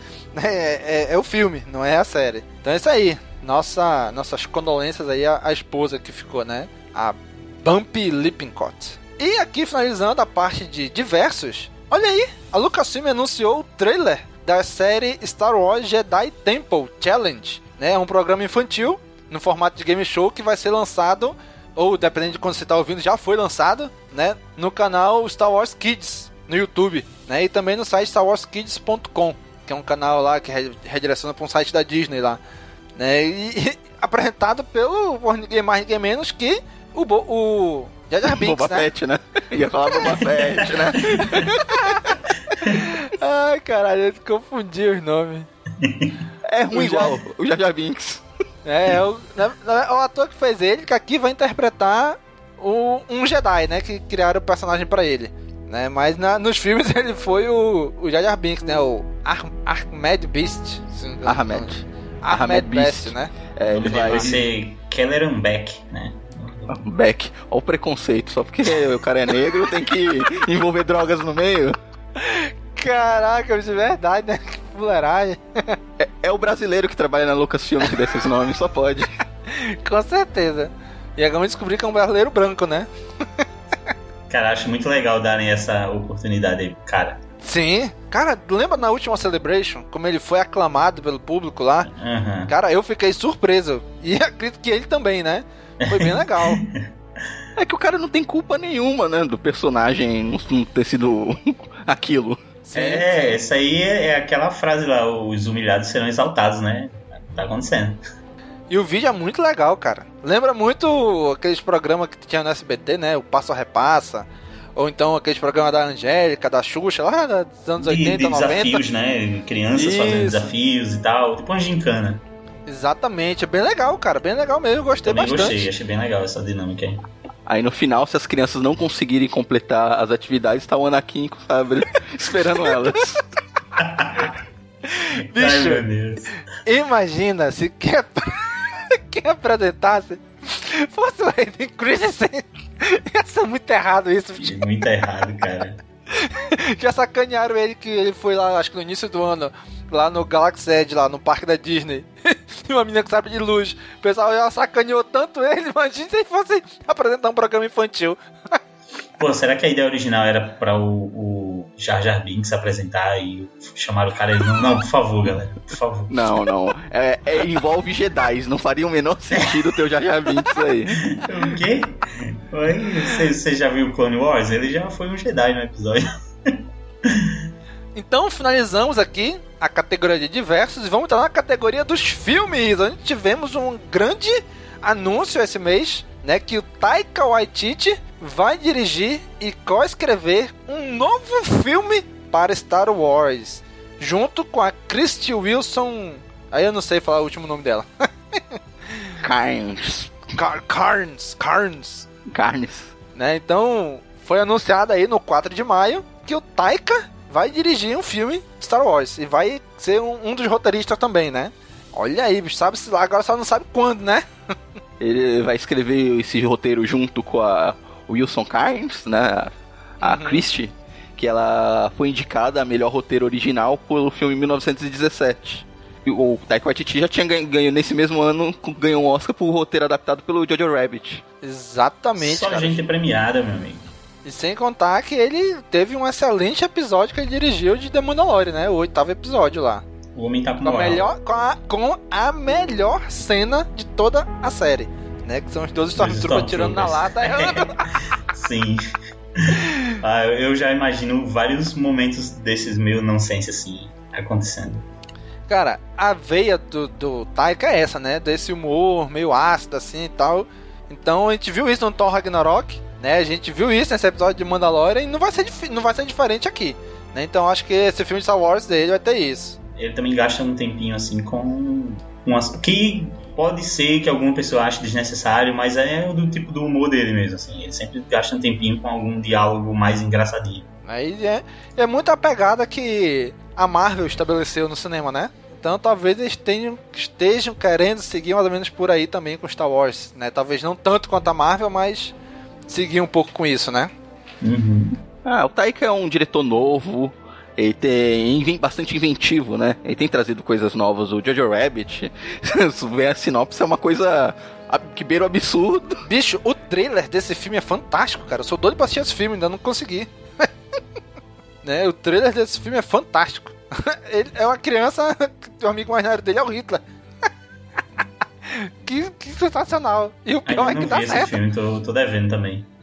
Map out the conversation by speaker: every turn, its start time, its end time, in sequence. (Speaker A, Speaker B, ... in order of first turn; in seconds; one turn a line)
Speaker A: 0.3-32.4
Speaker A: 33.0-38.9
Speaker B: 38.2-42.0
Speaker A: 39.9-42.1
Speaker A: 42.6-45.5
Speaker C: 45.8-46.1
Speaker B: 46.5-48.2
Speaker A: 46.7-47.2
Speaker A: 48.6-64.4
Speaker B: 61.2-64.4
Speaker C: 63.7-66.8
Speaker B: 66.7-71.8
Speaker A: 72.2-75.8
Speaker B: 76.0-79.1
Speaker A: 79.5-82.9
Speaker C: 84.3-87.2
Speaker A: 87.4-91.9
Speaker C: 91.9-92.5
Speaker A: 92.5-96.6
Speaker C: 95.8-96.8
Speaker B: 97.6-102.4
Speaker A: 102.6-103.4
Speaker C: 102.7-108.0
Speaker A: 108.7-118.8
Speaker C: 117.8-122.2
Speaker A: 119.7-120.5
Speaker A: 122.7-125.6
Speaker C: 125.0-127.0
Speaker B: 127.5-133.2
Speaker C: 133.8-134.3
Speaker A: 134.9-135.9
Speaker C: 135.3-136.3
Speaker A: 136.6-144.6
Speaker C: 144.4-145.8
Speaker A: 146.2-158.6
Speaker C: 159.2-166.4
Speaker B: 166.1-171.0
Speaker C: 171.1-177.3
Speaker A: 177.9-198.6
Speaker B: 199.2-200.1
Speaker A: 200.3-202.1
Speaker B: 202.3-202.9
Speaker A: 203.1-214.2
Speaker B: 215.0-231.2
Speaker A: 220.0-220.4
Speaker A: 231.4-232.8
Speaker C: 232.2-233.8
Speaker A: 234.2-239.8
Speaker C: 240.1-241.1
Speaker A: 240.6-247.8
Speaker C: 246.0-248.8
Speaker C: 249.4-254.8
Speaker A: 255.5-269.6
Speaker C: 269.8-280.6
Speaker A: 280.9-292.1
Speaker A: 292.7-293.9
Speaker C: 294.4-295.0
Speaker B: 295.2-306.0
Speaker A: 306.1-310.5
Speaker A: 311.6-316.8
Speaker A: 318.5-321.4
Speaker C: 320.5-322.6